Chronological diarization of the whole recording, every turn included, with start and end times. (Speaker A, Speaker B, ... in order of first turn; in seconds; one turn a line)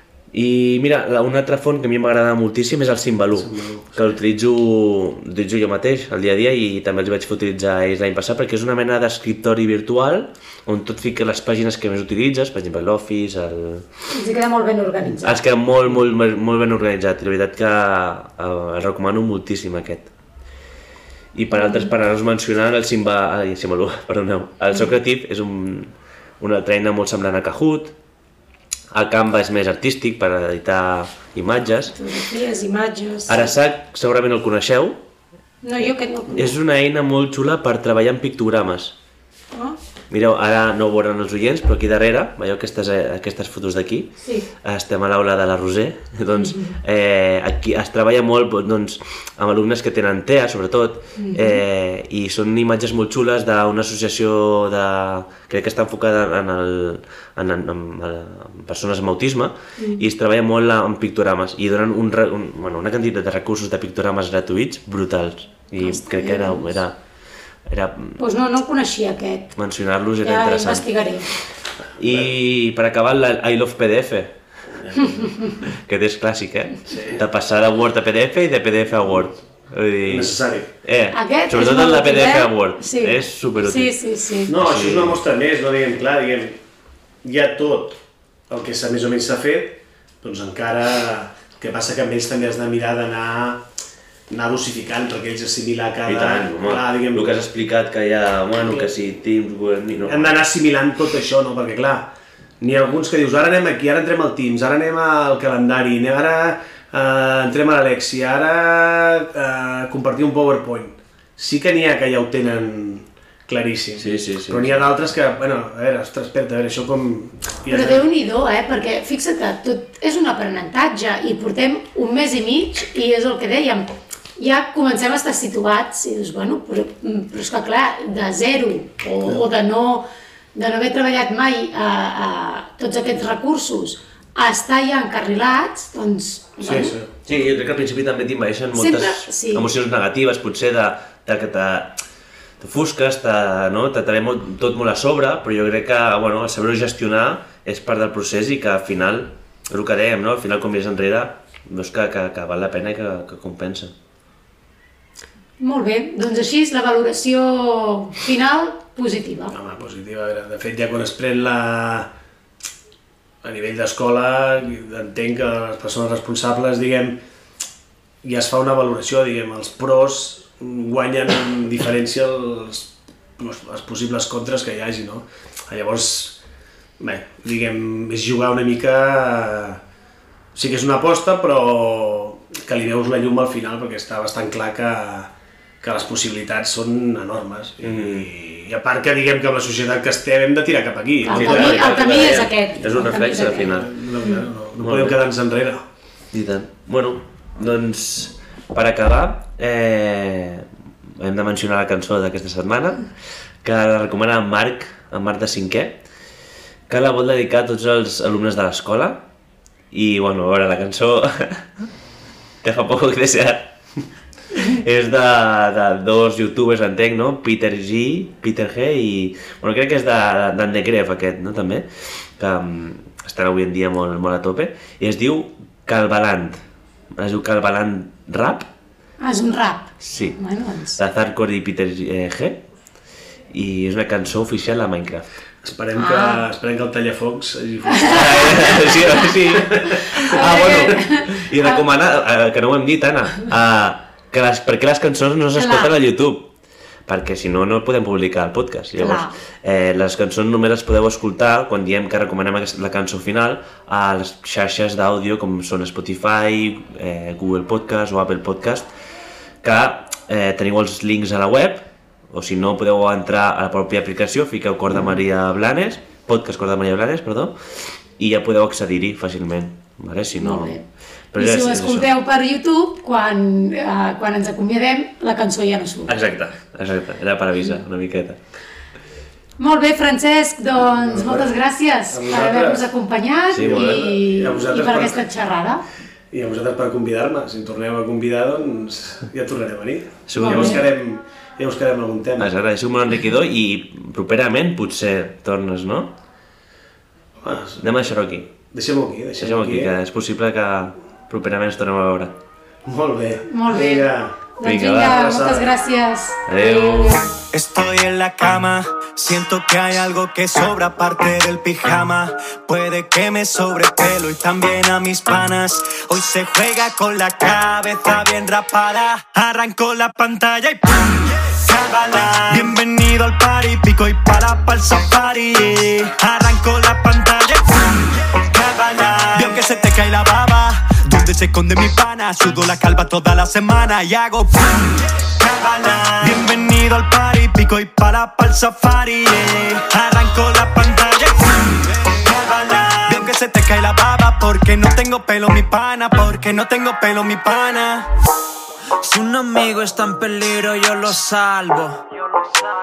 Speaker A: 0.3-13.9
Speaker B: 3.4-4.0
Speaker C: 14.1-15.4
Speaker A: 15.2-20.1
Speaker A: 21.4-27.9
Speaker C: 21.5-21.9
Speaker A: 28.9-32.0
Speaker C: 32.0-33.5
Speaker A: 33.3-35.0
Speaker C: 35.6-36.5
Speaker A: 36.3-39.0
Speaker A: 40.1-67.0
Speaker C: 44.2-44.5
Speaker C: 46.3-46.8
Speaker C: 51.2-51.6
Speaker C: 59.8-60.0
Speaker C: 65.8-66.7
Speaker A: 67.7-68.2
Speaker C: 68.2-69.5
Speaker A: 69.6-70.9
Speaker C: 70.2-71.3
Speaker A: 72.0-74.3
Speaker A: 74.9-83.9
Speaker C: 75.0-75.6
Speaker B: 76.9-77.2
Speaker B: 80.1-80.7
Speaker C: 81.1-84.5
Speaker B: 84.5-86.6
Speaker A: 84.5-85.2
Speaker B: 87.2-88.0
Speaker B: 88.5-93.7
Speaker B: 94.3-97.4
Speaker A: 96.0-100.4
Speaker B: 98.7-98.9
Speaker B: 100.0-118.1
Speaker A: 114.0-114.9
Speaker C: 117.7-136.9
Speaker B: 136.6-137.1
Speaker A: 137.3-142.0
Speaker C: 138.8-139.7
Speaker A: 142.6-153.9
Speaker C: 155.6-159.6
Speaker B: 159.5-162.1
Speaker B: 163.4-167.2
Speaker B: 168.2-176.4
Speaker B: 177.0-179.8
Speaker B: 180.5-195.8
Speaker A: 187.8-188.3
Speaker C: 191.2-194.4
Speaker A: 191.3-193.9
Speaker A: 194.8-195.2
Speaker A: 196.3-200.7
Speaker A: 201.2-203.1
Speaker A: 203.6-206.0
Speaker A: 206.9-209.2
Speaker A: 209.9-211.9
Speaker A: 212.6-213.7
Speaker A: 214.6-226.6
Speaker A: 227.2-228.7
Speaker C: 229.2-231.0
Speaker A: 230.0-230.4
Speaker A: 231.0-232.6
Speaker A: 233.5-235.3
Speaker B: 235.6-240.8
Speaker C: 236.0-236.4
Speaker C: 237.9-239.1
Speaker A: 238.1-246.5
Speaker C: 240.2-241.8
Speaker C: 245.6-245.9
Speaker A: 247.1-258.9
Speaker C: 249.0-249.4
Speaker A: 259.6-272.1
Speaker C: 270.4-270.8
Speaker C: 271.4-276.1
Speaker A: 276.1-278.4
Speaker C: 279.6-285.8
Speaker B: 281.0-281.6
Speaker B: 282.1-282.9
Speaker A: 283.5-284.0
Speaker B: 283.6-285.2
Speaker B: 286.3-292.5
Speaker A: 290.3-290.9
Speaker C: 290.4-290.8
Speaker A: 292.4-296.1
Speaker B: 297.4-299.9
Speaker A: 297.8-298.5
Speaker A: 299.4-302.4
Speaker B: 302.9-304.4
Speaker C: 303.5-307.3
Speaker A: 304.6-305.2
Speaker B: 305.0-305.7
Speaker A: 306.5-307.3
Speaker D: 307.5-348.1
Speaker E: 349.0-352.1